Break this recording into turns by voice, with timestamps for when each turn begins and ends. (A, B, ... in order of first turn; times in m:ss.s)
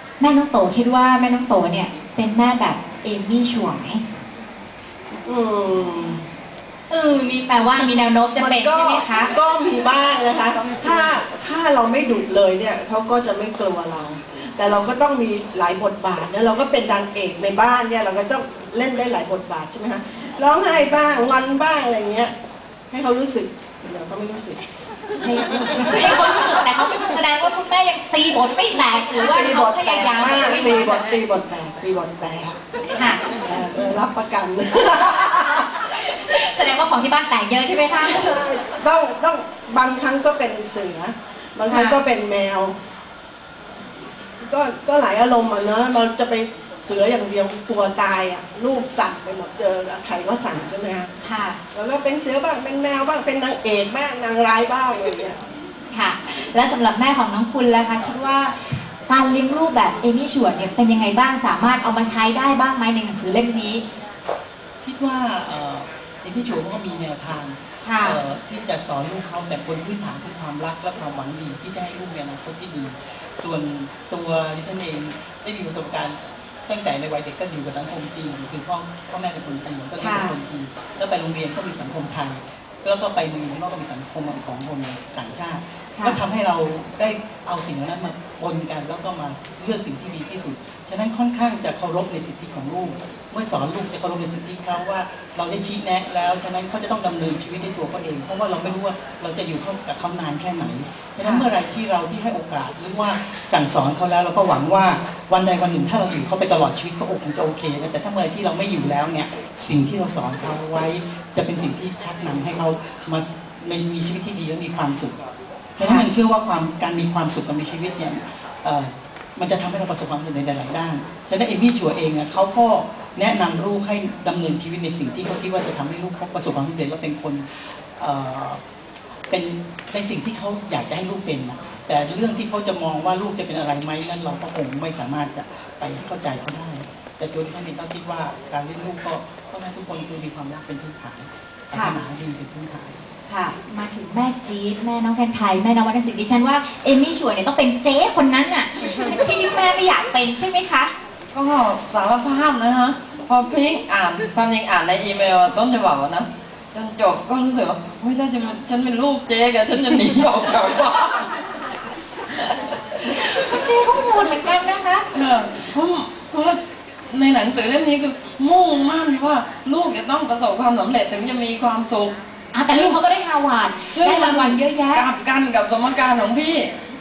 0:00.2-0:04.0 A
0:05.2-0:06.2 B
0:06.9-0:09.3 A
0:07.7-0:22.3 B
0:22.9-0:24.6 B
0:25.2-0:30.9 A
0:25.6-0:26.2 B
0:29.1-0:32.6 B
0:32.9-0:33.2 A
0:33.4-0:35.6 B
0:36.0-0:38.4 A
0:38.0-0:42.7 B
0:41.7-0:42.0 A
0:44.4-0:51.1 B
0:51.2-0:51.6 A
0:51.7-0:55.4 B
0:55.9-1:03.8 A
1:04.8-1:55.2 C
1:07.8-1:08.2 A
1:20.0-1:20.3 A
1:55.8-2:08.6 C
1:55.8-1:56.0 A
2:09.3-2:23.0 C
2:21.7-2:22.0 A
2:23.3-2:30.9 A
2:31.3-2:41.3 D
2:43.0-2:45.0 A
2:45.1-2:46.6 D
2:47.1-2:52.1 D
2:52.5-2:55.1 A
2:52.7-2:53.0 D
2:53.9-2:56.7 D